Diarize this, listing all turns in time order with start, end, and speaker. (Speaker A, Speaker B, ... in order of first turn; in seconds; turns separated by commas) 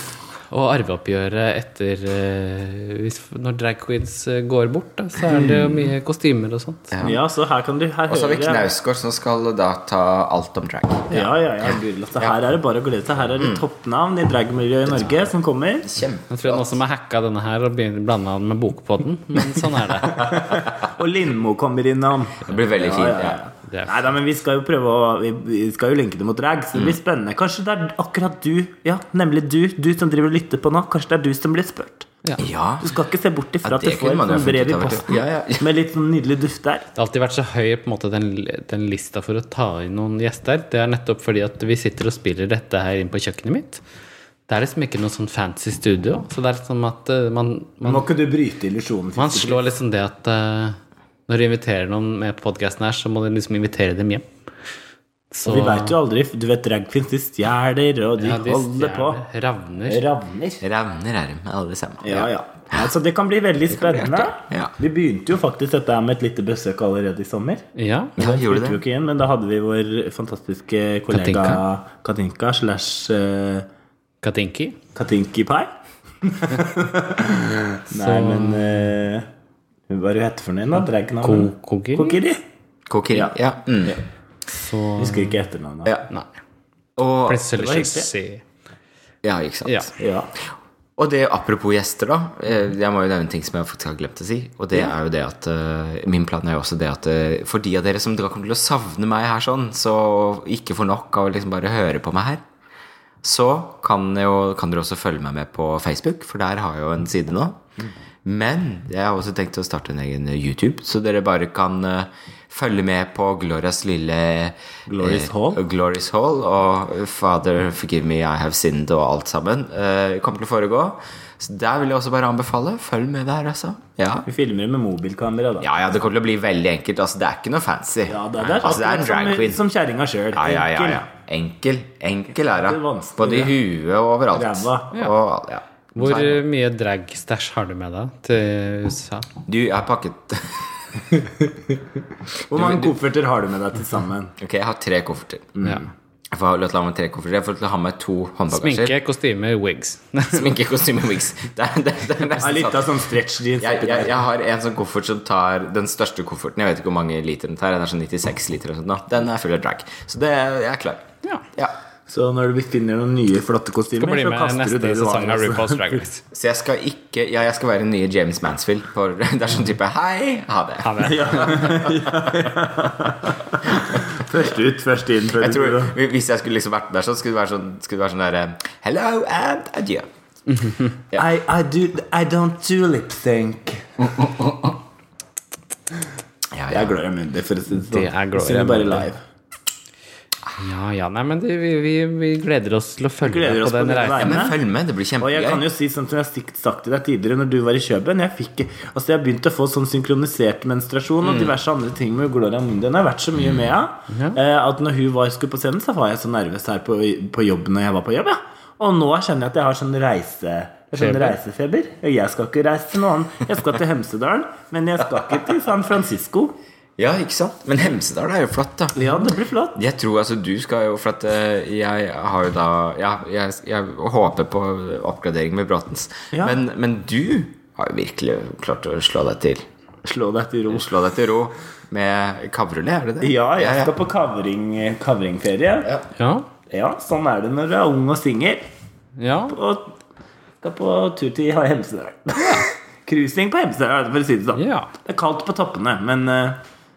Speaker A: 0.5-7.0, Speaker B: 6.9-7.2, Speaker C: 7.0-8.7, Speaker B: 8.1-11.2, Speaker C: 11.1-15.9, Speaker B: 13.4-13.6, Speaker B: 15.8-16.8, Speaker A: 16.3-20.3, Speaker C: 20.0-32.1, Speaker B: 22.4-23.4, Speaker A: 23.7-24.0, Speaker B: 32.4-32.9, Speaker C: 32.8-36.9, Speaker B: 33.6-35.7, Speaker A: 37.0-43.8, Speaker A: 44.5-48.1, Speaker C: 47.8-49.6, Speaker A: 49.2-50.8, Speaker A: 51.3-54.2, Speaker A: 55.3-56.0, Speaker C: 55.4-59.2, Speaker A: 58.2-60.0, Speaker C: 59.9-60.6, Speaker B: 60.6-62.9, Speaker C: 62.0-73.7, Speaker B: 63.7-64.7, Speaker A: 67.8-68.1, Speaker B: 68.2-68.8, Speaker A: 71.1-71.6, Speaker A: 74.2-74.8, Speaker C: 74.9-75.7, Speaker C: 76.2-79.3, Speaker A: 77.9-78.9, Speaker C: 79.9-82.4, Speaker A: 81.2-82.2, Speaker B: 82.9-84.0, Speaker C: 83.1-84.0, Speaker A: 84.5-85.4, Speaker C: 85.0-86.0, Speaker B: 87.0-87.5, Speaker A: 87.3-88.4, Speaker C: 87.5-88.1, Speaker B: 89.2-89.9, Speaker C: 90.0-90.3, Speaker B: 91.0-102.4, Speaker B: 103.2-107.6, Speaker B: 108.2-124.3, Speaker C: 114.9-115.6, Speaker C: 124.2-125.7, Speaker B: 125.6-129.6, Speaker C: 128.1-131.0, Speaker B: 130.3-136.4, Speaker C: 132.6-133.5, Speaker C: 134.3-134.9, Speaker A: 135.9-139.3, Speaker B: 139.4-140.7, Speaker C: 141.2-141.8, Speaker C: 142.5-144.3, Speaker B: 142.5-142.9, Speaker B: 144.4-145.5, Speaker C: 145.5-145.9, Speaker B: 146.3-148.9, Speaker A: 148.5-150.5, Speaker B: 150.3-153.0, Speaker C: 152.4-154.2, Speaker B: 153.6-161.8, Speaker C: 162.1-166.0, Speaker A: 164.0-166.2, Speaker B: 166.3-172.4, Speaker A: 170.8-171.8, Speaker C: 171.0-175.9, Speaker B: 175.4-180.1, Speaker A: 180.5-180.9, Speaker C: 181.1-184.2, Speaker B: 186.5-186.9, Speaker C: 186.7-189.2, Speaker A: 187.9-189.1, Speaker A: 190.6-194.5, Speaker C: 193.2-194.6, Speaker B: 194.2-195.7, Speaker C: 195.2-216.5, Speaker A: 204.1-204.4, Speaker A: 211.0-211.3, Speaker B: 217.0-219.0, Speaker C: 218.9-219.8, Speaker B: 219.8-229.6, Speaker C: 226.3-226.6, Speaker C: 230.0-230.9, Speaker B: 230.7-233.9, Speaker C: 233.2-235.9, Speaker A: 236.2-236.5, Speaker C: 236.7-238.6, Speaker A: 239.2-239.6, Speaker C: 239.5-239.9, Speaker C: 240.6-246.6, Speaker A: 242.4-242.7, Speaker A: 244.5-244.9